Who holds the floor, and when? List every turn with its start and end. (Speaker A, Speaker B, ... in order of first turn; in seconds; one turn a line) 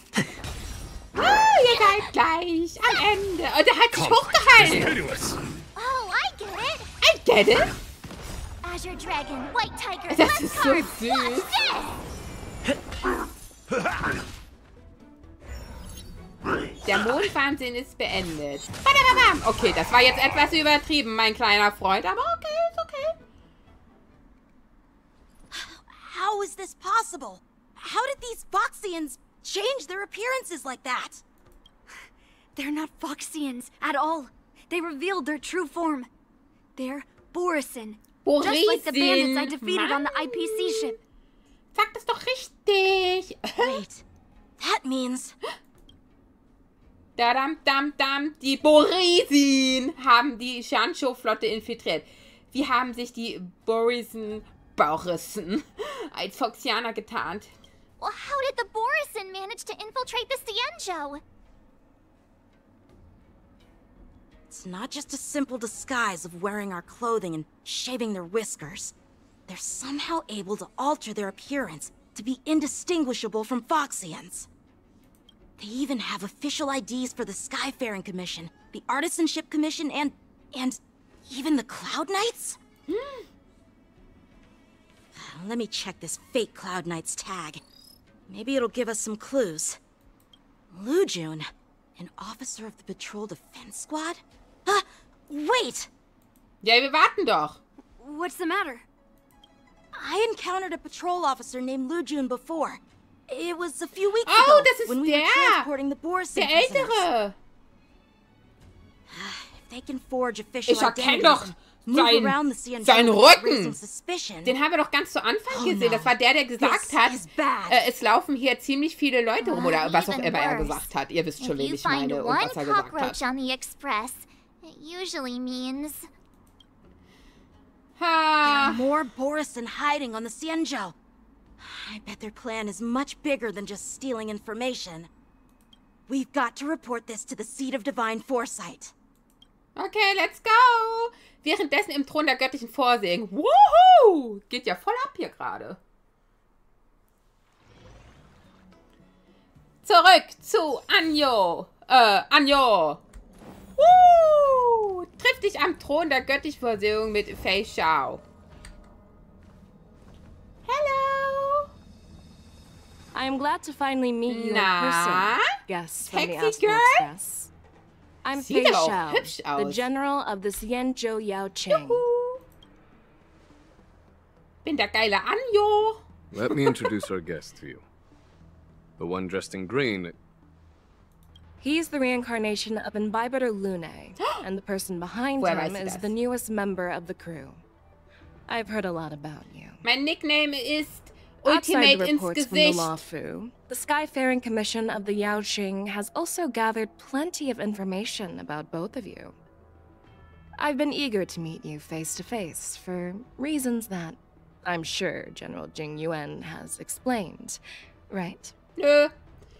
Speaker A: 1.2-5.0
Speaker B: 1.7-2.1
Speaker C: 3.9-5.3
Speaker B: 5.8-6.9
Speaker A: 7.0-7.7
Speaker B: 8.6-12.0
Speaker A: 10.1-11.5
Speaker A: 16.8-23.1
Speaker D: 25.5-31.2
Speaker E: 32.5-36.1
Speaker E: 36.8-41.0
Speaker A: 38.2-41.0
Speaker A: 41.7-43.8
Speaker D: 43.5-44.0
Speaker D: 44.6-45.3
Speaker A: 47.2-57.5
Speaker B: 58.0-61.2
Speaker D: 64.5-68.9
Speaker D: 69.5-74.5
Speaker D: 75.6-82.6
Speaker A: 82.9-83.2
Speaker D: 85.1-87.6
Speaker D: 88.3-89.8
Speaker D: 90.7-95.9
Speaker A: 96.6-97.6
Speaker E: 98.0-98.8
Speaker D: 99.9-107.0
Speaker A: 104.2-105.7
Speaker A: 106.3-107.3
Speaker D: 109.1-114.5
Speaker A: 110.7-113.8
Speaker A: 114.4-117.2
Speaker D: 115.5-117.8
Speaker A: 117.7-123.2
Speaker B: 119.4-120.9
Speaker B: 121.4-126.1
Speaker A: 128.0-128.8
Speaker D: 128.4-130.9
Speaker D: 131.6-135.1
Speaker D: 136.1-138.9
Speaker A: 139.8-145.8
Speaker A: 149.8-153.0
Speaker A: 153.8-158.2
Speaker A: 160.7-161.7
Speaker F: 163.1-167.5
Speaker A: 164.3-165.5
Speaker A: 166.1-167.1
Speaker F: 168.2-172.0
Speaker A: 168.3-169.8
Speaker A: 171.7-172.4
Speaker A: 174.6-177.0
Speaker C: 176.3-177.8
Speaker C: 179.0-180.2
Speaker F: 181.6-187.6
Speaker A: 185.4-186.1
Speaker F: 188.5-189.8
Speaker A: 189.8-192.9
Speaker F: 191.4-199.3
Speaker F: 200.6-208.5
Speaker A: 208.8-209.1